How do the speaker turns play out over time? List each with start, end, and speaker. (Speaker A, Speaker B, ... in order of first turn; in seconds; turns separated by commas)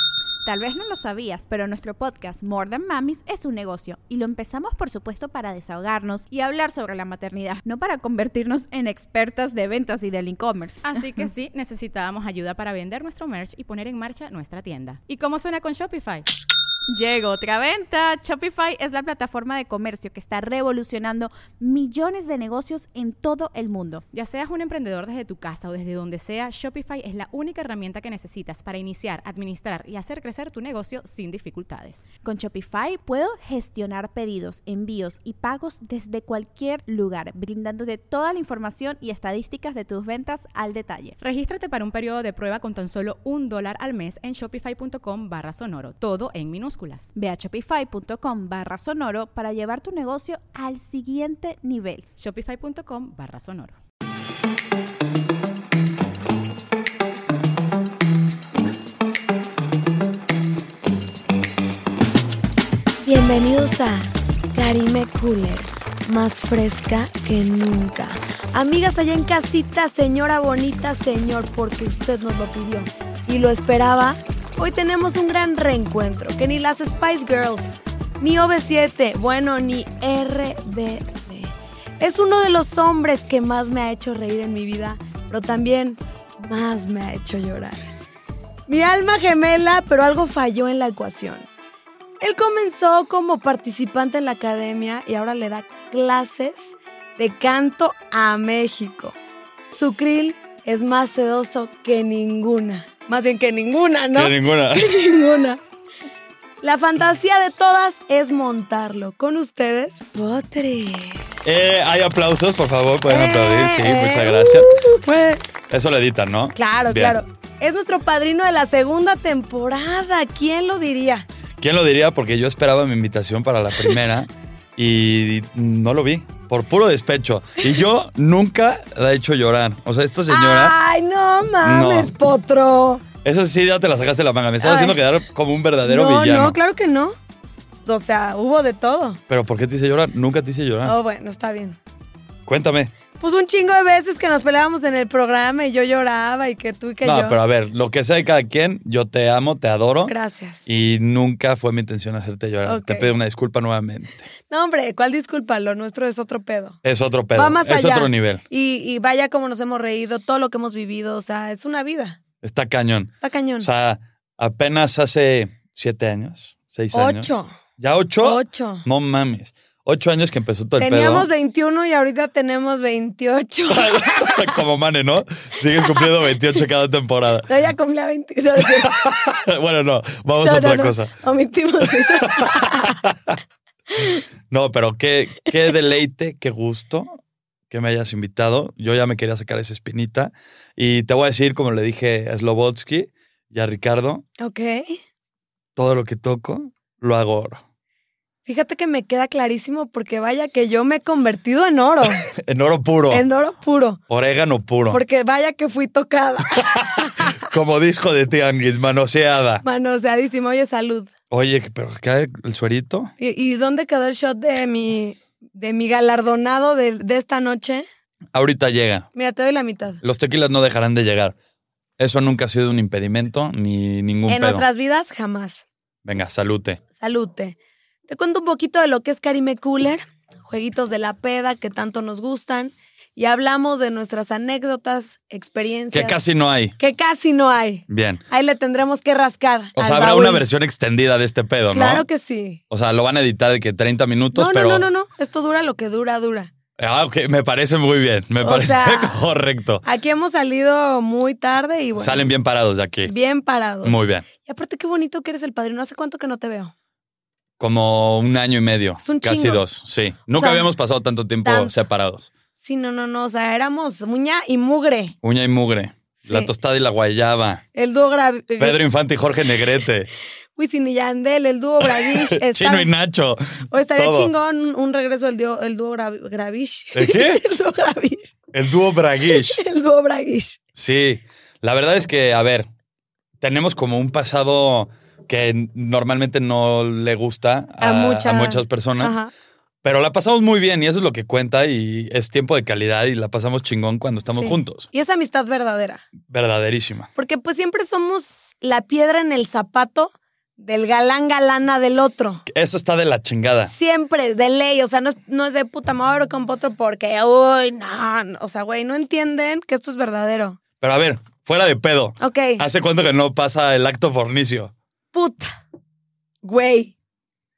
Speaker A: 0.4-11.3, Speaker B: 10.8-16.2, Speaker A: 16.9-24.0, Speaker B: 24.1-32.0, Speaker A: 32.2-41.1, Speaker B: 41.2-47.1, Speaker A: 47.1-52.0, Speaker B: 52.2-53.8, Speaker C: 63.0-87.8, Speaker C: 88.7-91.5, Speaker C: 92.2-99.2, Speaker C: 99.7-105.6, Speaker D: 104.1-104.9, Speaker C: 106.6-111.5, Speaker D: 111.4-114.8, Speaker C: 113.1-115.4, Speaker D: 115.7-117.2, Speaker C: 116.5-121.3, Speaker D: 121.6-130.7, Speaker C: 130.3-133.0, Speaker D: 131.6-132.1, Speaker D: 133.2-136.6, Speaker C: 134.6-135.0, Speaker C: 135.8-137.2, Speaker C: 137.8-139.2, Speaker D: 139.3-140.9, Speaker C: 140.8-141.8, Speaker D: 142.4-142.9, Speaker C: 143.1-147.4, Speaker D: 147.0-150.1, Speaker C: 150.1-150.7, Speaker D: 150.7-154.2, Speaker C: 152.6-153.1, Speaker C: 154.5-156.8, Speaker D: 156.8-158.4, Speaker C: 157.3-162.2, Speaker D: 162.4-171.3, Speaker C: 163.2-163.7, Speaker C: 166.9-167.5, Speaker C: 168.2-168.8, Speaker C: 170.8-174.5, Speaker D: 173.7-177.5, Speaker C: 177.5-179.2, Speaker D: 178.6-181.1, Speaker C: 180.4-183.0, Speaker D: 181.8-183.4, Speaker C: 183.9-184.2, Speaker D: 184.5-187.2, Speaker D: 187.7-194.2, Speaker C: 194.4-194.9, Speaker D: 195.8-197.6, Speaker C: 198.4-202.3, Speaker D: 202.3-203.2, Speaker C: 203.1-204.0, Speaker D: 204.1-205.0, Speaker C: 204.9-207.3, Speaker D: 206.6-209.6, Speaker C: 209.6-211.1, Speaker D: 211.3-213.1, Speaker C: 213.2-217.8, Speaker D: 218.3-219.1, Speaker C: 219.1-220.0, Speaker D: 220.0-221.3, Speaker D: 222.0-224.6, Speaker C: 224.3-225.6, Speaker D: 226.0-226.8, Speaker C: 227.0-227.6, Speaker C: 228.1-236.2, Speaker D: 235.9-236.7, Speaker C: 236.8-240.4, Speaker D: 237.9-238.2, Speaker D: 239.8-242.1, Speaker C: 241.7-242.6, Speaker D: 242.7-244.9, Speaker C: 244.3-246.5, Speaker D: 246.8-249.8, Speaker C: 248.4-249.2, Speaker C: 249.8-252.3, Speaker D: 251.9-253.1, Speaker C: 253.0-256.7, Speaker D: 253.8-254.2, Speaker D: 257.6-262.3, Speaker C: 259.0-259.6, Speaker C: 260.3-260.6, Speaker C: 261.4-261.8, Speaker C: 262.6-265.1, Speaker D: 265.2-267.6, Speaker C: 266.2-266.5, Speaker C: 267.8-268.8, Speaker D: 268.6-270.1, Speaker C: 270.6-272.9, Speaker D: 271.9-274.3, Speaker C: 273.7-278.4, Speaker D: 276.9-277.4, Speaker D: 278.5-279.6, Speaker C: 279.3-280.6, Speaker D: 280.7-282.7, Speaker D: 283.4-289.2, Speaker C: 287.8-289.3, Speaker D: 289.8-294.9, Speaker C: 294.3-296.0, Speaker D: 296.3-297.1, Speaker C: 297.1-302.4, Speaker D: 302.5-303.7, Speaker C: 303.7-310.6, Speaker D: 310.8-314.7, Speaker C: 312.2-312.6, Speaker C: 315.1-315.6, Speaker C: 316.4-316.9